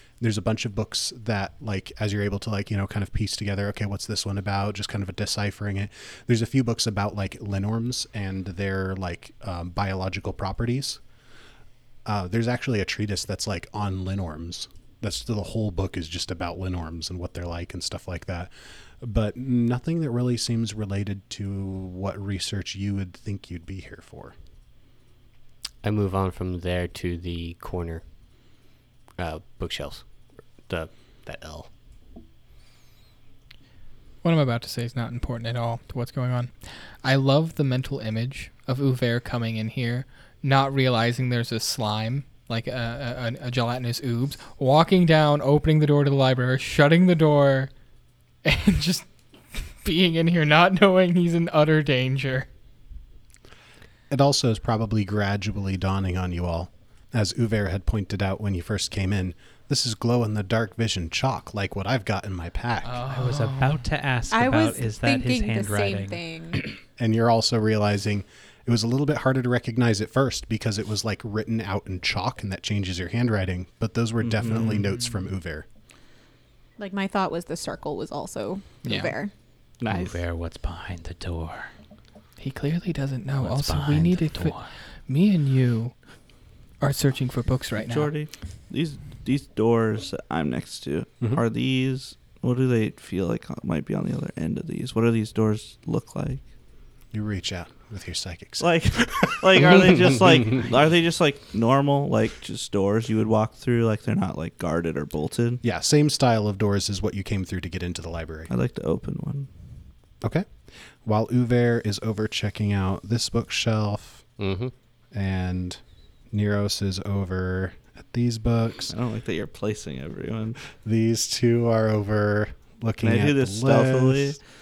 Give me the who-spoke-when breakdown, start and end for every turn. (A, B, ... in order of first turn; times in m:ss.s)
0:00.2-0:11.0 A
0:12.1-0:24.4 A
0:25.8-0:28.0 B
0:29.2-0:30.1 B
0:30.7-0:31.7 B
0:34.2-0:47.7 C
0:48.4-0:52.5 C
0:54.1-1:03.0 A
1:02.8-1:03.8 C
1:03.1-1:06.2 D
1:04.3-1:06.7 E
1:07.0-1:15.7 A
1:14.2-1:14.8 F
1:16.8-1:19.3 E
1:18.8-1:19.1 C
1:19.8-1:20.1 F
1:19.9-1:21.7 D
1:22.4-1:26.0 C
1:23.4-1:24.7 D
1:26.8-1:28.1 C
1:27.8-1:36.4 F
1:37.1-1:40.6 A
1:38.6-1:45.6 F
1:45.6-1:48.5 A
1:48.5-1:49.5 F
1:51.0-1:54.2 A
1:54.4-1:54.7 B
1:55.1-1:55.8 A
1:56.3-1:58.9 A
1:58.9-2:00.6 F
2:00.8-2:04.4 A
2:03.0-2:04.4 F